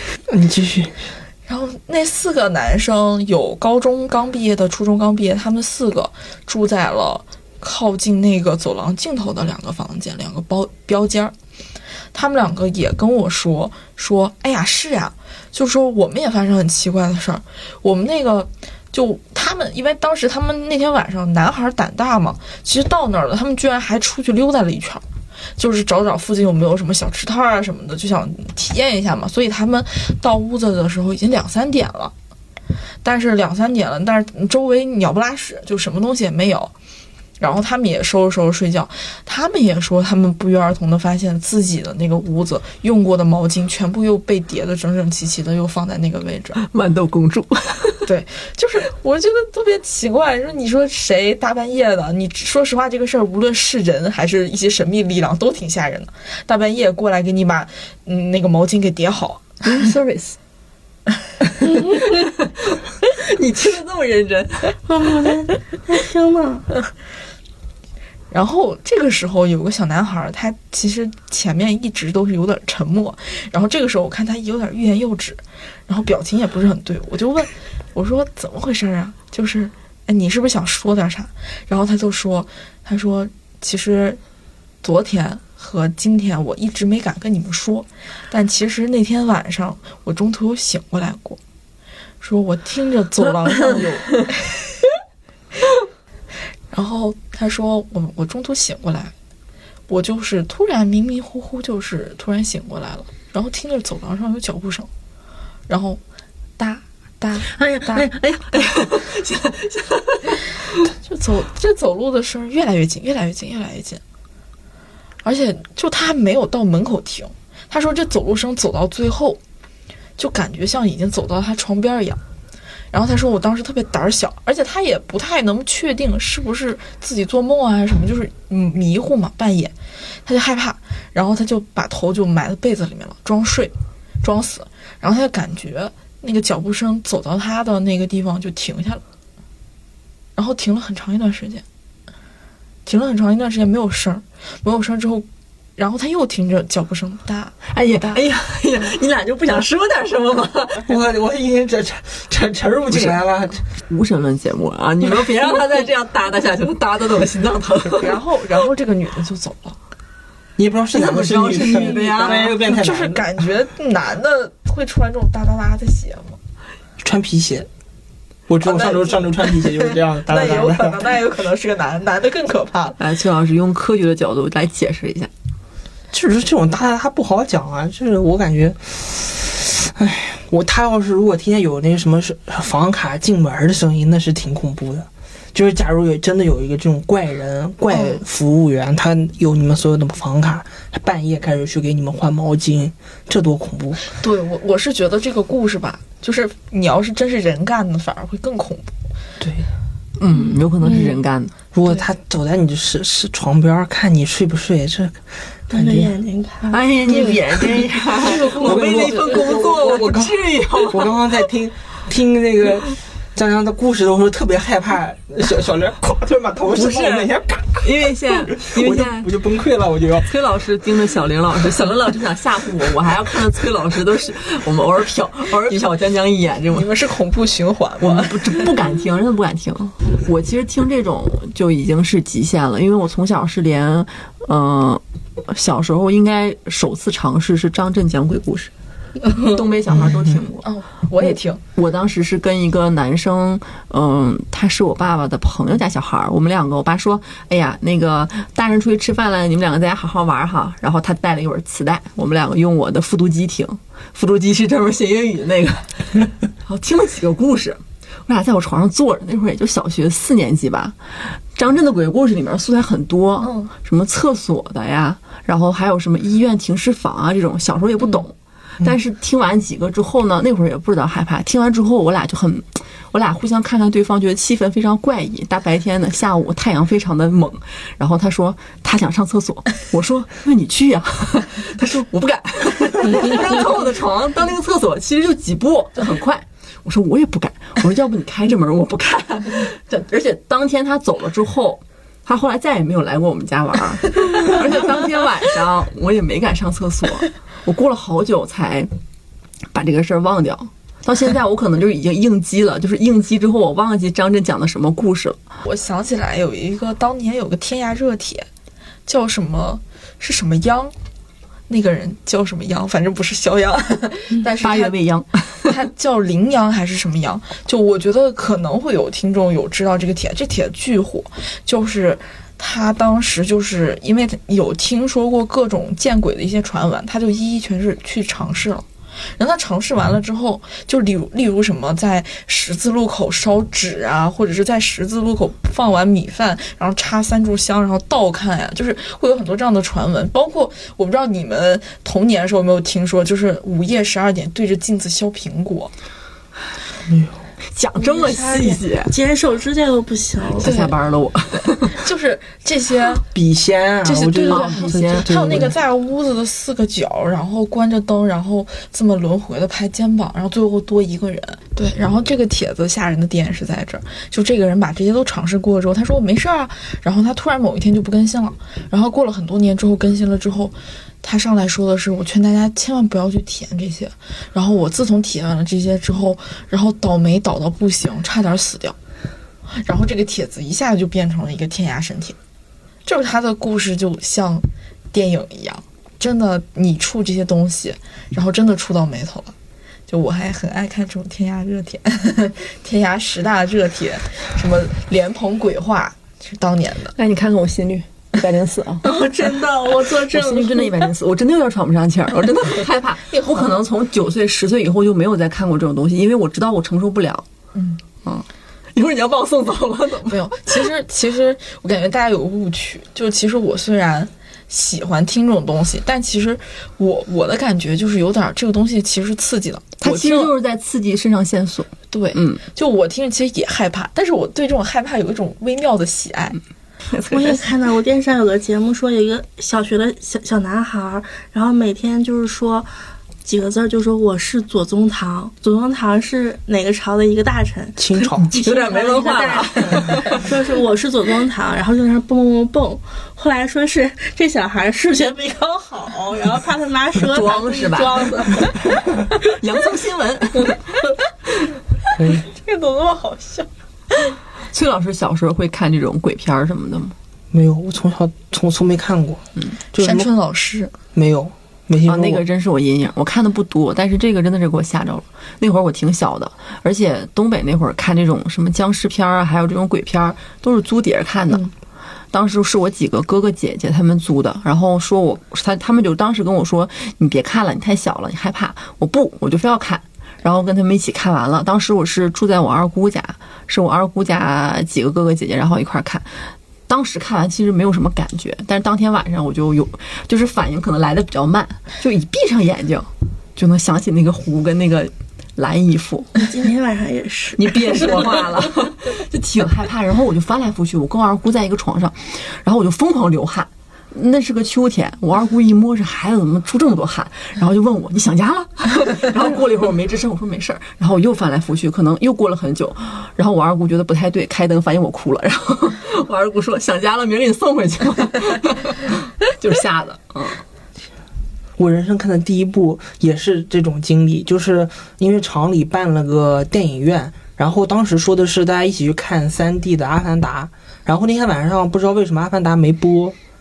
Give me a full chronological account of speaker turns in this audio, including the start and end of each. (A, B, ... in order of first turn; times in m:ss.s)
0:00.3-0:00.9 A
0:01.5-0:11.3 B
0:12.1-0:25.0 B
0:25.6-0:32.1 B
0:33.0-0:36.7 B
0:37.4-0:46.6 B
0:46.6-0:48.0 C
0:48.0-0:59.6 B
0:59.6-1:00.4 C
1:01.8-1:04.8 C
1:04.8-1:06.7 D
1:08.3-1:24.2 B
1:24.8-1:31.4 B
1:32.2-1:34.8 B
1:36.7-1:39.1 B
1:39.9-1:44.9 B
1:45.7-1:46.0 B
1:46.6-1:48.1 B
1:47.6-1:50.8 C
1:51.0-1:54.0 B
1:55.2-1:59.4 B
2:00.2-2:02.2 B
2:02.9-2:09.7 B
2:10.2-2:19.0 B
2:20.4-2:21.6 B
2:22.8-2:25.2 B
2:25.8-2:28.2 B
2:27.7-2:30.9 C
2:30.8-2:33.6 A
2:32.9-2:33.2 C
2:33.9-2:38.2 C
2:38.0-2:39.8 B
2:40.6-2:43.3 A
2:40.9-2:42.6 C
2:42.6-2:46.4 B
2:47.0-2:47.7 A
2:48.5-2:51.1 A
2:48.6-2:53.0 B
2:53.0-2:55.3 C
2:56.1-3:14.0 A
3:07.9-3:08.2 B
3:14.2-3:18.9 B
3:19.4-3:19.7 A
3:20.2-3:21.5 C
3:20.9-3:21.2 D
3:21.7-3:26.1 A
3:25.7-3:26.8 D
3:26.7-3:31.2 C
3:27.3-3:40.3 A
3:28.2-3:29.8 B
3:36.7-3:39.3 C
3:40.2-3:46.9 C
3:46.7-3:48.7 B
3:48.0-3:58.7 C
3:59.3-4:00.7 C
3:59.9-4:00.4 A
4:00.6-4:01.6 B
4:01.2-4:58.9 C
4:23.4-4:23.7 B
4:59.7-5:05.4 C
5:05.6-5:08.4 B
5:09.1-5:10.9 B
5:11.7-5:15.0 B
5:14.6-5:15.7 C
5:15.6-5:28.8 B
5:29.4-5:45.9 B
5:47.1-5:47.4 A
5:47.7-5:49.1 C
5:48.0-5:50.7 D
5:50.6-5:52.0 C
5:50.6-5:50.9 B
5:51.9-5:53.2 B
5:53.3-5:55.8 A
5:54.0-6:19.0 B
5:54.5-5:55.6 C
6:19.8-6:22.4 B
6:23.0-6:29.5 B
6:30.1-6:37.1 B
6:37.2-6:39.1 C
6:39.0-6:41.1 D
6:40.2-6:47.4 C
6:43.3-6:43.6 B
6:47.7-6:48.0 B
6:48.2-6:50.7 C
6:50.3-7:00.5 B
7:00.0-7:02.6 C
7:02.1-7:06.6 B
7:07.1-7:07.7 C
7:07.3-7:12.9 D
7:13.4-7:29.0 D
7:18.0-7:18.5 A
7:18.5-7:20.4 C
7:27.2-7:28.7 C
7:29.4-7:30.8 C
7:32.2-7:32.4 A
7:32.4-7:33.7 B
7:34.7-7:37.1 C
7:37.5-7:40.3 A
7:40.0-7:40.9 B
7:41.1-7:42.4 A
7:42.0-7:51.7 C
7:52.3-8:06.3 C
8:06.9-8:16.4 C
8:16.4-8:18.4 D
8:17.6-8:40.6 C
8:41.8-8:53.4 A